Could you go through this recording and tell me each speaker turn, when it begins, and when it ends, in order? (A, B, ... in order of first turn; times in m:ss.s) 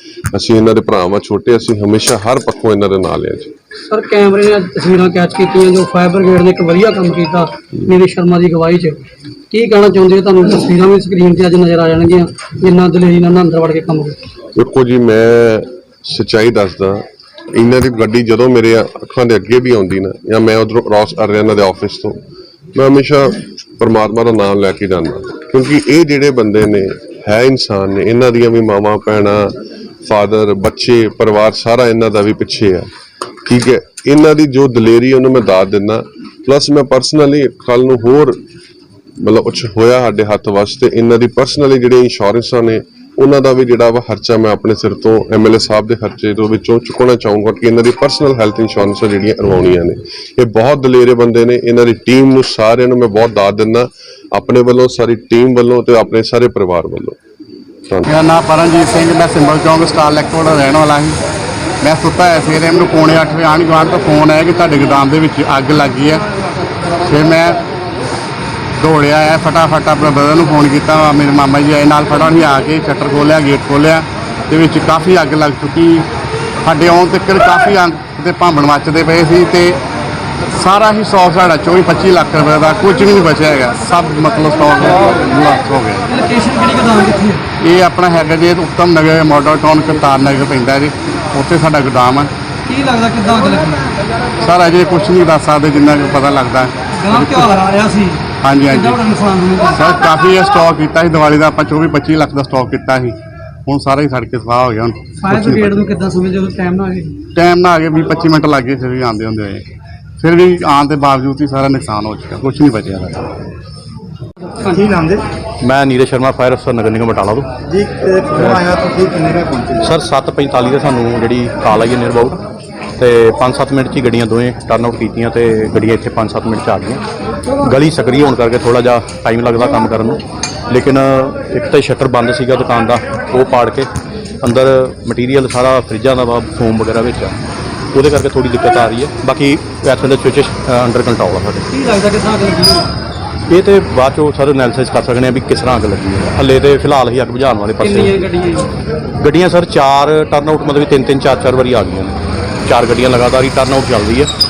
0:00.3-0:03.5 A
0:03.9-0:14.2 B
0:14.6-0:22.2 A
0:22.7-0:32.9 A
0:33.4-0:38.4 A
0:39.2-0:57.2 A
0:58.1-1:01.2 C
1:01.8-1:06.2 C
1:07.0-1:07.6 C
1:08.8-1:16.1 C
1:16.6-1:19.8 C
1:20.6-1:26.1 C
1:26.3-1:27.4 B
1:27.6-1:32.3 C
1:32.7-1:33.8 B
1:34.4-1:37.5 C
1:37.1-1:39.7 B
1:38.4-1:39.0 C
1:39.7-1:45.8 C
1:45.2-1:47.2 B
1:47.4-1:49.6 C
1:50.2-1:53.2 C
1:54.7-1:55.2 D
1:55.6-1:57.6 E
1:57.6-1:59.9 D
1:58.3-1:58.7 E
1:59.8-2:02.4 E
2:03.0-2:07.0 E
2:07.6-2:13.9 E
2:14.4-2:17.4 E
2:17.9-2:21.8 E
2:21.9-2:22.8 B
2:23.5-2:28.2 E
2:27.8-2:28.6 B
2:29.2-2:34.3 E